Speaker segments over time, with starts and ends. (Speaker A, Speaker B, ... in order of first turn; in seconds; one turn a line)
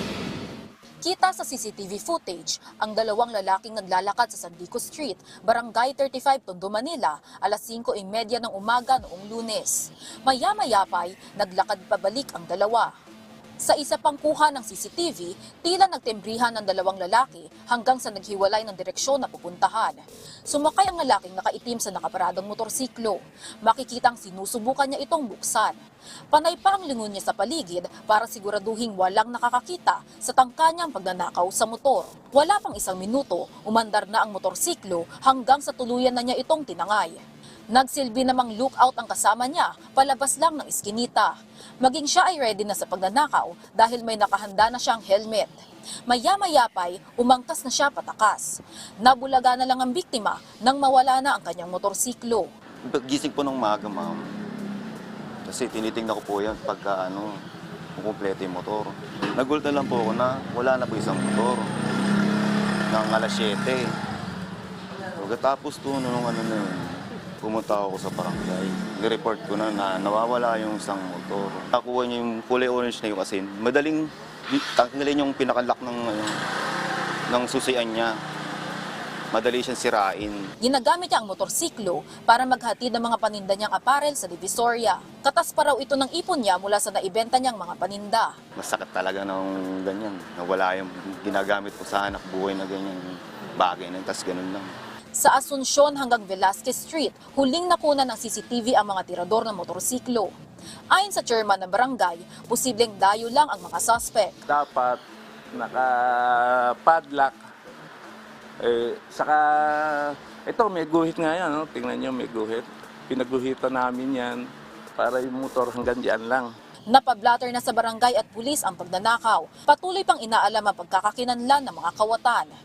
Speaker A: 1.0-12.9
Speaker A: 13.6-20.0
Speaker A: 20.5-25.8
Speaker A: 26.3-37.2
Speaker A: 37.7-41.3
Speaker A: 41.8-45.5
Speaker A: 46.1-48.5
Speaker A: 49.0-52.5
Speaker B: 52.9-54.2
Speaker B: 55.5-57.3
Speaker B: 58.0-61.7
Speaker B: 62.9-63.9
Speaker B: 65.2-76.3
Speaker B: 77.3-78.1
Speaker B: 79.3-80.4
Speaker A: 80.6-88.3
Speaker B: 88.6-93.0
Speaker B: 93.6-94.7
Speaker A: 95.2-100.3
Speaker A: 100.9-104.3
Speaker C: 104.5-105.0
Speaker C: 105.5-107.4
Speaker C: 108.6-114.4
Speaker C: 115.0-116.5
Speaker A: 116.9-122.5